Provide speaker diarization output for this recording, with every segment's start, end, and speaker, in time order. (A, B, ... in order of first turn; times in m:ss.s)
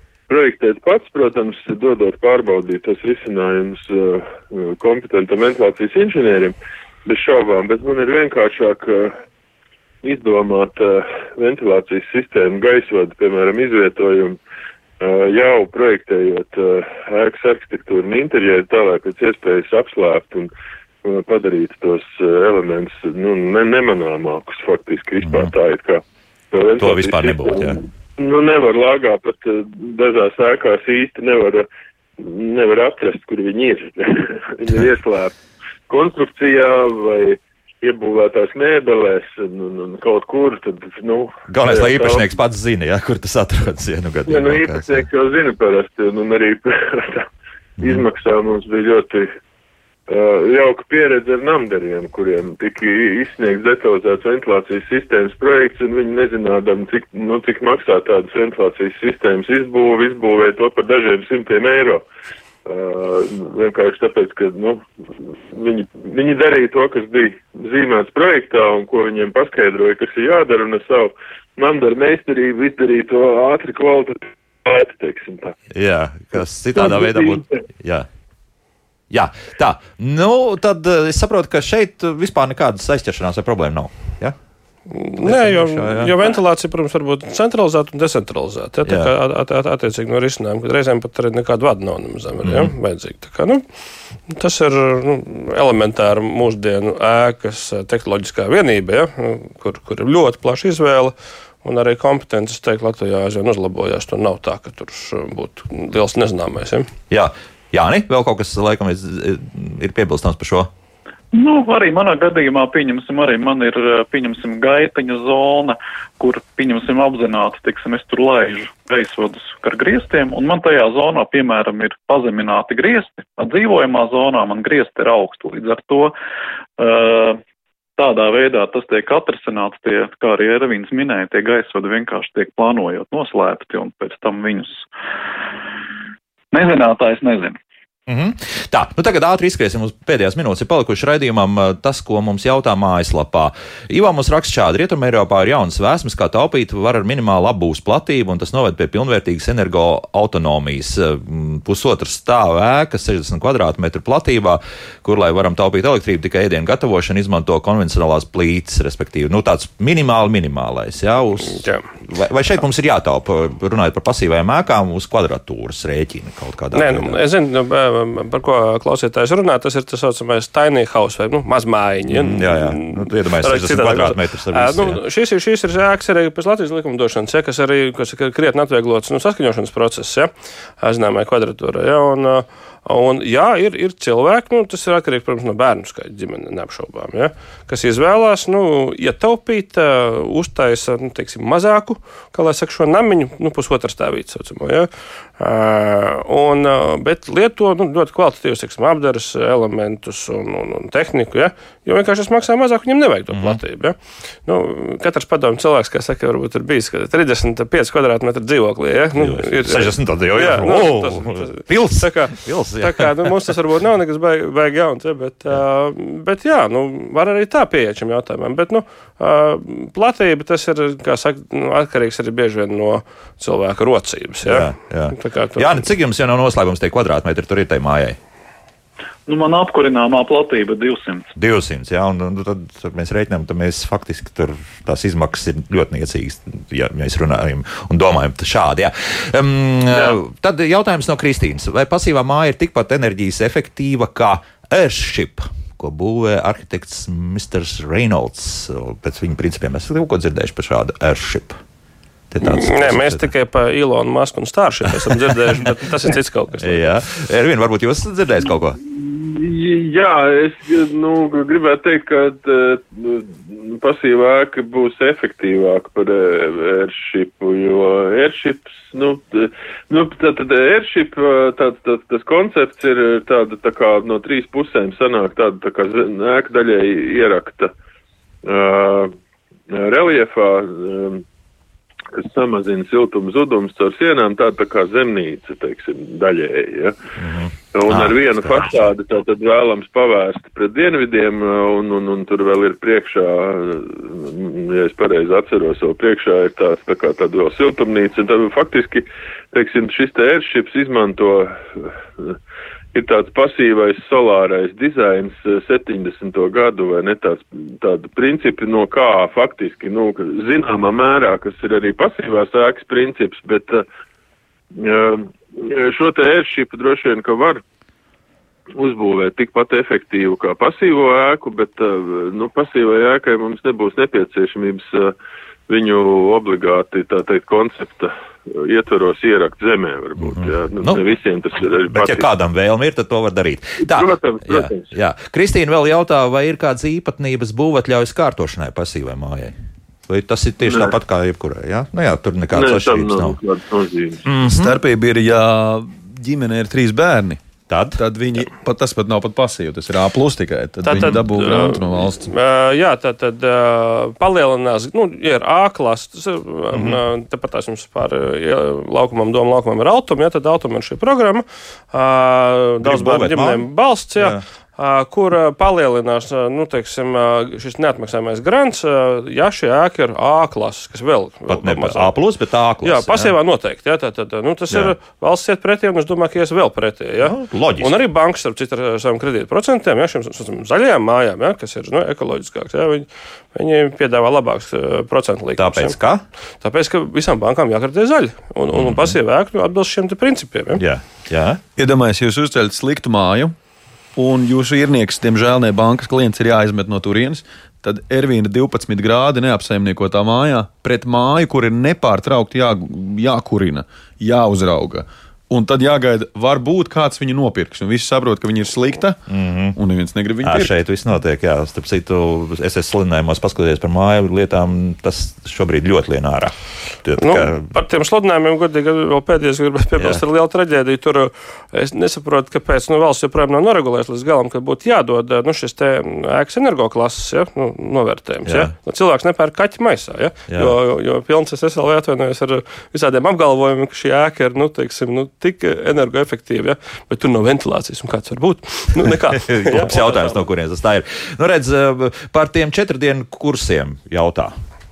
0:00.3-0:09.2 A
0:10.0-0:14.4 A
0:15.0-0:20.5 A
0:21.0-0:31.6 A
0:25.2-0:25.5 B
0:26.8-0:27.8 B
0:32.2-0:35.3 A
0:35.9-0:42.3 A
0:41.5-0:45.0 B
0:44.3-0:47.3 A
0:47.8-0:48.0 B
0:47.8-0:49.3 A
0:50.1-1:02.0 A
1:02.6-1:04.8 A
1:05.5-1:15.5 A
1:15.7-1:18.1 B
1:16.7-1:17.5 A
1:19.1-1:24.3 B
1:24.9-1:33.6 C
1:25.2-1:26.1 B
1:28.8-1:29.1 B
1:32.4-1:32.7 B
1:34.3-1:41.1 C
1:41.6-1:46.9 C
1:47.1-1:50.7 B
1:51.3-2:06.1 D
2:06.8-2:07.4 D
2:08.0-2:14.9 D
2:16.5-2:17.6 D
2:18.1-2:47.2 B
2:41.6-2:41.8 C
2:46.7-3:00.3 C
2:52.1-2:55.0 B
3:00.8-3:45.8 C
3:23.3-3:23.6 B
3:29.2-3:33.3 B
3:44.4-3:48.2 B
3:49.3-3:51.3 D
3:51.4-4:11.6 B
4:12.3-4:13.3 B
4:12.4-4:16.9 C
4:15.1-4:15.3 B
4:16.6-4:18.8 B
4:18.8-4:37.7 A
4:38.4-4:39.1 A
4:39.7-4:41.2 A
4:42.1-4:47.0 A
4:47.2-4:48.9 B
4:47.7-5:02.4 A
5:02.9-5:13.8 A
5:14.7-5:17.6 A
5:18.7-5:25.1 A
5:25.7-5:32.3 A
5:30.2-5:31.0 B
5:31.9-5:39.5 B
5:33.8-5:34.9 A
5:40.1-5:43.4 B
5:40.7-5:40.9 A
5:42.5-5:44.2 A
5:44.2-5:44.8 B
5:44.4-5:47.4 E
5:47.7-5:48.0 B
5:48.0-5:52.3 E
5:50.8-6:12.1 C
5:56.7-5:57.0 B
6:02.8-6:04.4 B
6:11.5-6:13.3 B
6:12.8-6:26.0 C
6:17.2-6:18.0 B
6:25.6-6:26.2 B
6:26.6-6:30.8 C
6:28.7-6:29.1 B
6:30.7-6:31.6 B
6:31.8-6:33.5 E
6:34.2-6:49.2 E
6:49.3-6:49.8 B
6:49.7-6:50.7 E
6:50.4-6:57.7 B
6:57.2-7:20.4 C
7:00.0-7:00.2 B
7:08.4-7:08.7 B
7:10.5-7:10.7 B
7:19.4-7:24.5 B